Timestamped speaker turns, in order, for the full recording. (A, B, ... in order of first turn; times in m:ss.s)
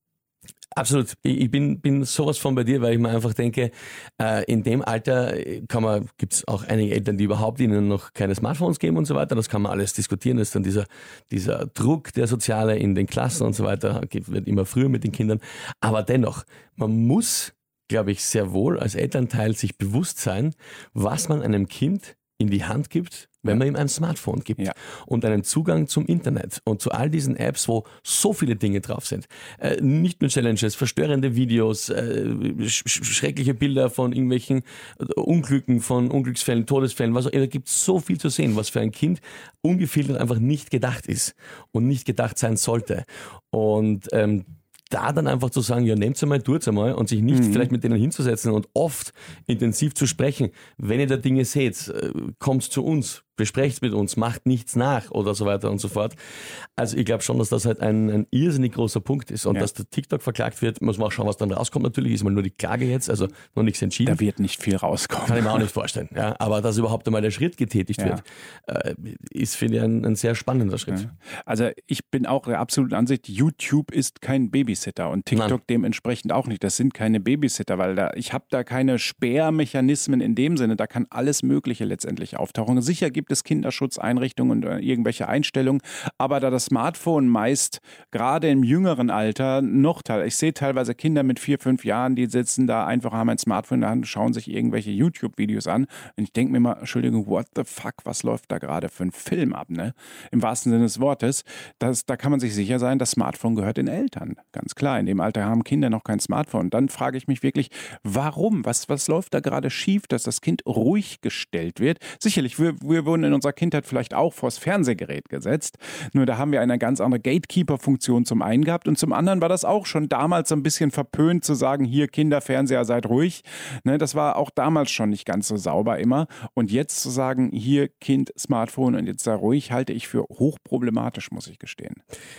0:00.8-0:56.2 A
0:47.3-0:47.7 B
0:56.8-1:04.2 A
1:04.0-1:05.6 B
1:05.2-1:11.1 A
1:10.9-2:12.0 B
1:15.3-1:15.6 A